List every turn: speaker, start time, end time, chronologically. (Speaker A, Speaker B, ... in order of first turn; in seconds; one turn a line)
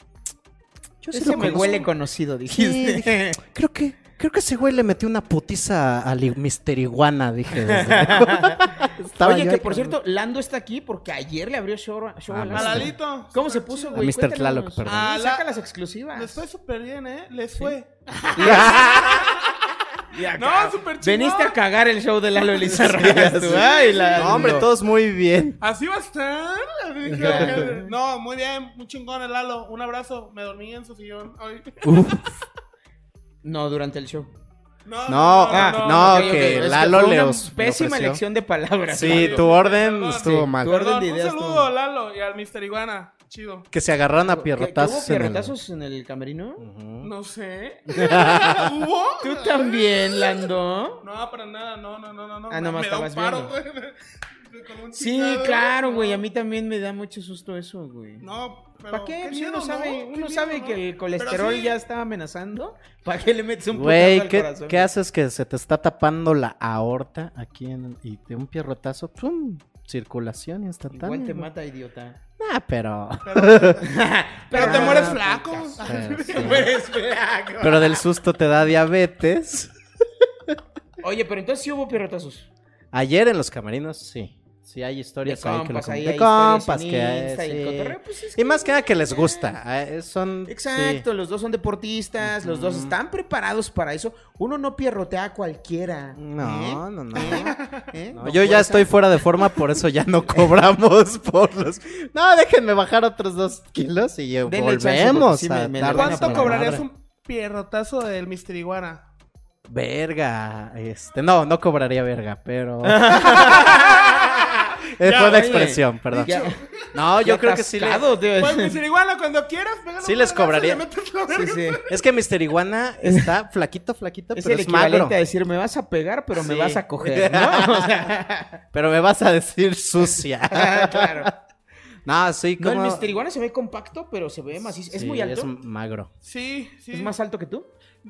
Speaker A: 1.0-1.9
Speaker B: 1.1-3.4
Speaker A: 2.5-10.0
Speaker B: 7.6-8.7
Speaker B: 9.2-16.4
Speaker A: 12.3-12.9
Speaker C: 12.5-14.1
Speaker A: 13.9-15.1
Speaker C: 14.8-15.5
Speaker C: 16.1-19.2
Speaker B: 18.3-19.3
Speaker A: 18.4-19.1
Speaker B: 20.1-24.7
Speaker C: 20.3-21.6
Speaker A: 22.6-25.6
Speaker C: 23.6-24.6
Speaker C: 25.6-31.8
Speaker A: 27.1-27.8
Speaker B: 27.1-27.9
Speaker A: 31.8-32.2
Speaker B: 33.4-34.3
Speaker C: 34.9-36.8
Speaker A: 35.1-38.2
Speaker B: 35.5-39.6
Speaker A: 38.9-40.8
Speaker C: 39.0-43.7
Speaker B: 40.3-41.7
Speaker A: 43.7-45.5
Speaker B: 44.2-46.6
Speaker A: 46.6-47.1
Speaker C: 47.0-50.4
Speaker A: 47.9-48.7
Speaker B: 49.2-51.0
Speaker C: 51.0-54.0
Speaker B: 52.5-53.5
Speaker C: 54.5-56.2
Speaker B: 54.9-58.2
Speaker C: 58.2-61.8
Speaker B: 58.9-64.9
Speaker A: 63.7-71.5
Speaker B: 70.9-72.2
Speaker A: 72.4-73.8
Speaker C: 73.2-73.9
Speaker B: 73.9-78.0
Speaker C: 74.5-76.7
Speaker A: 74.5-76.7
Speaker A: 77.6-79.7
Speaker B: 81.0-82.5
Speaker A: 82.9-91.0
Speaker B: 85.2-89.5
Speaker B: 90.5-99.0
Speaker A: 92.2-93.0
Speaker A: 96.2-97.5
Speaker C: 97.2-97.9
Speaker A: 98.1-106.8
Speaker B: 104.5-106.8
Speaker C: 105.9-109.0
Speaker A: 109.7-113.8
Speaker B: 112.8-116.6
Speaker A: 115.0-118.0
Speaker C: 115.0-116.5
Speaker B: 117.2-118.8
Speaker C: 118.4-121.8
Speaker A: 120.0-120.8
Speaker B: 121.3-121.8
Speaker A: 121.9-125.2
Speaker B: 123.0-123.3
Speaker B: 124.3-128.6
Speaker A: 126.3-128.1
Speaker A: 128.7-131.3
Speaker B: 130.5-131.3
Speaker A: 132.1-133.1
Speaker B: 132.6-135.5
Speaker A: 134.8-136.1
Speaker C: 136.2-137.1
Speaker B: 136.9-137.7